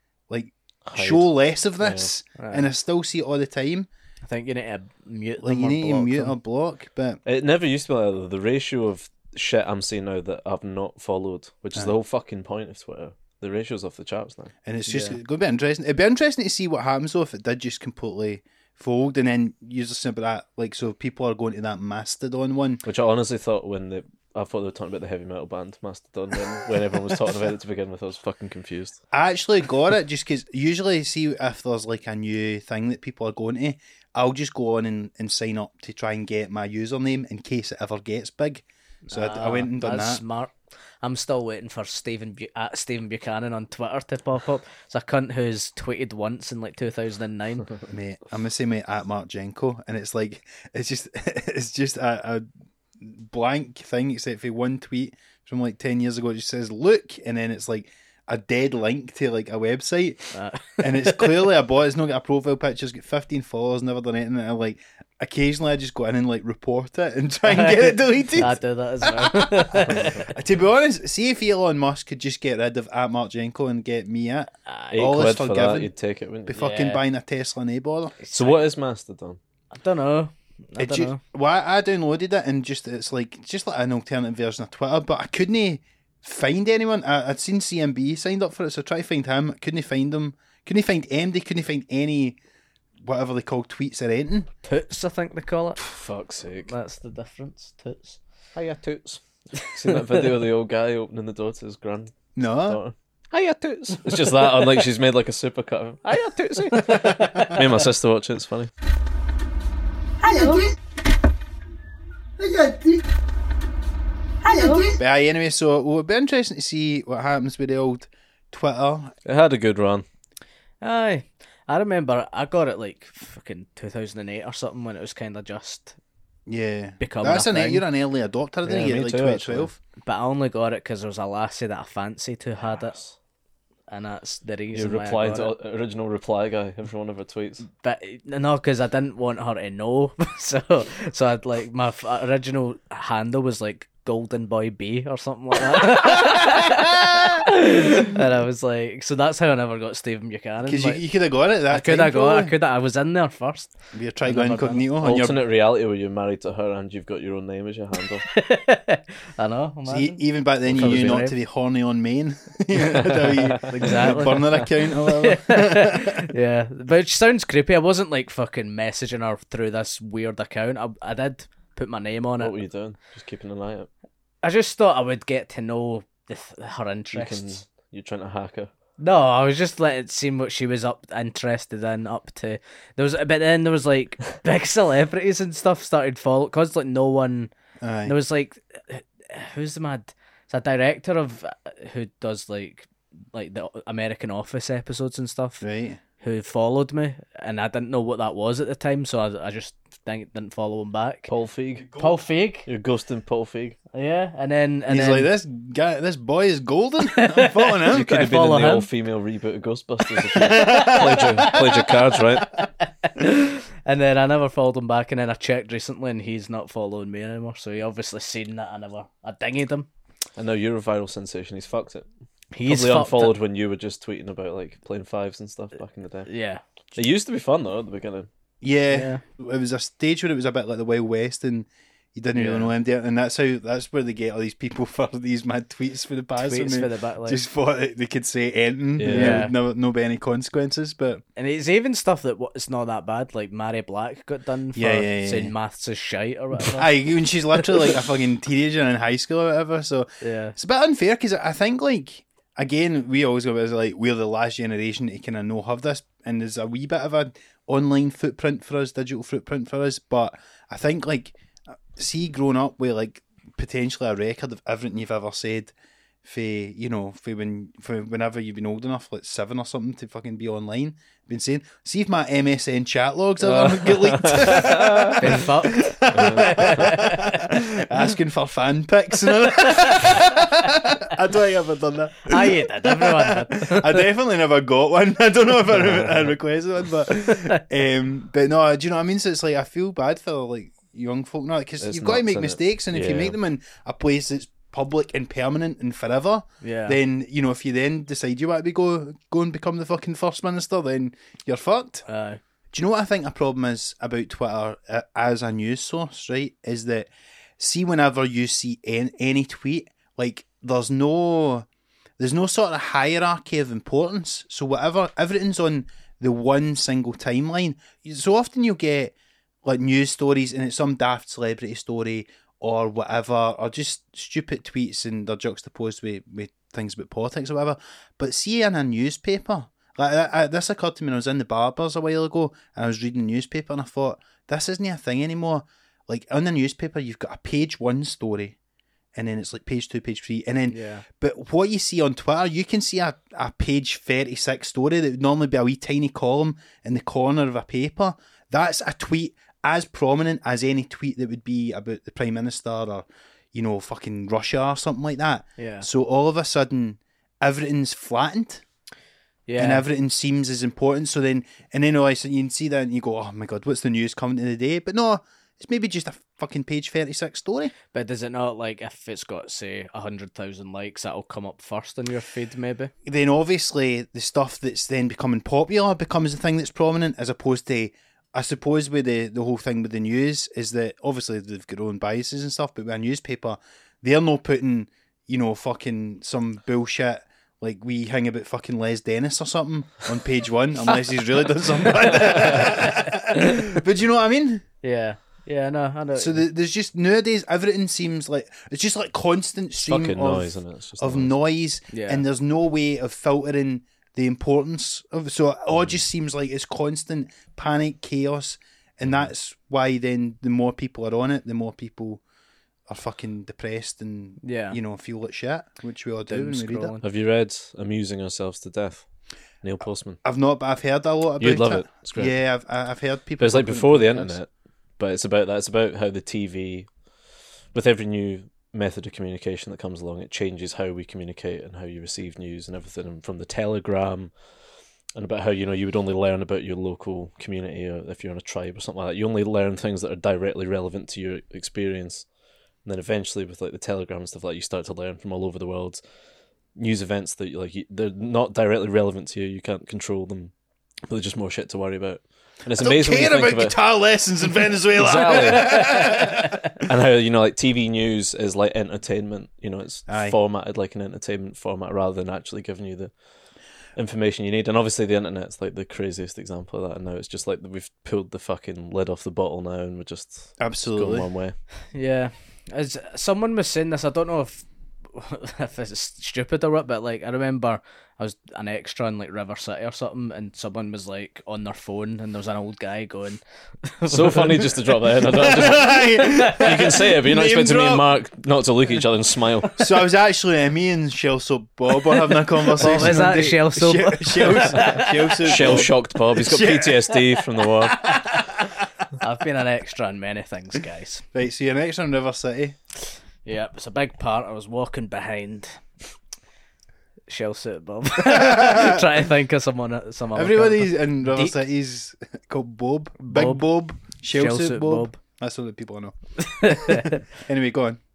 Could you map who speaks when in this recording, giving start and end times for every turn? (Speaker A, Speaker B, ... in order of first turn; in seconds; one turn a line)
Speaker A: 0.3-3.9
Speaker B: 0.9-2.1
Speaker C: 2.4-2.7
Speaker C: 4.2-6.3
Speaker A: 5.4-7.2
Speaker B: 7.3-14.5
Speaker A: 14.7-22.8
Speaker C: 14.9-15.2
Speaker B: 22.8-29.0
Speaker A: 29.1-40.2
Speaker C: 39.1-47.7
Speaker A: 47.9-52.5
Speaker A: 53.0-60.2
Speaker C: 60.3-61.3
Speaker A: 60.8-75.9
Speaker C: 67.5-70.3
Speaker C: 74.7-75.0
Speaker B: 74.9-76.6
Speaker A: 76.5-78.2
Speaker C: 76.6-77.0
Speaker C: 78.2-78.6
Speaker B: 78.3-79.4
Speaker C: 79.7-81.2
Speaker A: 80.8-92.4
Speaker A: 93.0-94.5
Speaker C: 94.7-95.8
Speaker B: 95.8-96.7
Speaker C: 96.7-98.2
Speaker B: 98.5-108.7
Speaker A: 102.4-102.8
Speaker C: 106.8-107.6
Speaker C: 110.3-110.5
Speaker A: 112.4-112.9
Speaker C: 114.5-114.9
Speaker A: 115.0-119.1
Speaker B: 119.2-120.0
Speaker C: 120.8-126.0
Speaker A: 126.5-129.8
Speaker C: 127.0-127.9
Speaker B: 128.7-129.7
Speaker C: 130.1-133.0
Speaker C: 133.9-135.5
Speaker B: 134.7-137.6
Speaker C: 137.7-151.0
Speaker A: 146.2-147.3
Speaker A: 150.7-152.5
Speaker C: 151.7-153.7
Speaker A: 153.9-155.4
Speaker C: 154.2-154.8
Speaker B: 155.0-158.3
Speaker C: 158.3-161.3
Speaker A: 159.9-166.2
Speaker B: 160.7-161.2
Speaker B: 163.0-163.7
Speaker C: 163.7-172.6
Speaker B: 172.4-173.9
Speaker C: 174.4-177.6
Speaker B: 177.1-178.7
Speaker C: 179.0-187.5
Speaker A: 187.8-188.2
Speaker C: 188.1-195.6
Speaker A: 195.6-196.0
Speaker C: 196.2-201.3
Speaker B: 201.3-201.9
Speaker A: 201.8-202.1
Speaker C: 202.0-202.7
Speaker B: 202.7-203.8
Speaker C: 203.9-205.3
Speaker A: 204.9-208.1
Speaker C: 207.1-208.9
Speaker B: 207.9-212.6
Speaker C: 210.3-211.9
Speaker A: 210.5-211.6
Speaker C: 212.8-219.9
Speaker B: 220.4-222.1
Speaker C: 222.5-223.4
Speaker B: 222.7-226.3
Speaker C: 226.3-226.6
Speaker B: 226.9-228.3
Speaker A: 228.6-241.2
Speaker C: 228.9-229.2
Speaker C: 232.3-232.7
Speaker C: 236.4-237.4
Speaker B: 239.0-239.5
Speaker C: 239.1-239.5
Speaker C: 241.4-246.9
Speaker A: 244.8-245.5
Speaker A: 246.7-265.7
Speaker C: 250.2-250.6
Speaker A: 266.2-302.0
Speaker B: 273.4-275.2
Speaker C: 275.2-277.5
Speaker B: 276.1-276.7
Speaker C: 282.3-284.0
Speaker B: 291.8-293.4
Speaker C: 296.6-297.0
Speaker C: 302.1-302.4
Speaker A: 302.7-311.7
Speaker A: 312.2-338.6
Speaker A: 339.1-358.6
Speaker C: 340.7-341.1
Speaker C: 355.6-355.9
Speaker C: 359.5-359.9
Speaker A: 359.6-367.7
Speaker C: 367.9-372.9
Speaker A: 373.0-394.6
Speaker C: 392.6-393.6
Speaker C: 394.8-396.4
Speaker A: 396.1-412.2
Speaker B: 399.8-401.4
Speaker C: 401.9-402.2
Speaker A: 412.9-416.9
Speaker C: 414.4-414.8
Speaker C: 416.3-417.0
Speaker B: 417.0-419.1
Speaker B: 419.6-420.2
Speaker A: 420.2-424.4
Speaker B: 421.4-422.4
Speaker B: 423.4-426.9
Speaker B: 427.7-434.3
Speaker B: 435.2-442.2
Speaker B: 442.9-446.0
Speaker B: 446.8-450.5
Speaker B: 451.1-453.8
Speaker A: 452.8-456.8
Speaker B: 454.9-463.1
Speaker A: 460.1-460.4
Speaker B: 464.0-471.6
Speaker A: 470.6-471.3
Speaker C: 471.9-484.7
Speaker B: 484.1-489.9
Speaker A: 485.3-488.1
Speaker A: 489.8-498.7
Speaker C: 492.8-495.4
Speaker B: 495.4-498.1
Speaker C: 499.2-501.2
Speaker A: 501.3-502.8
Speaker C: 503.4-505.8
Speaker C: 507.3-511.6
Speaker A: 508.2-509.0
Speaker A: 510.4-518.0
Speaker C: 513.2-513.6
Speaker C: 514.3-515.2
Speaker C: 516.4-517.2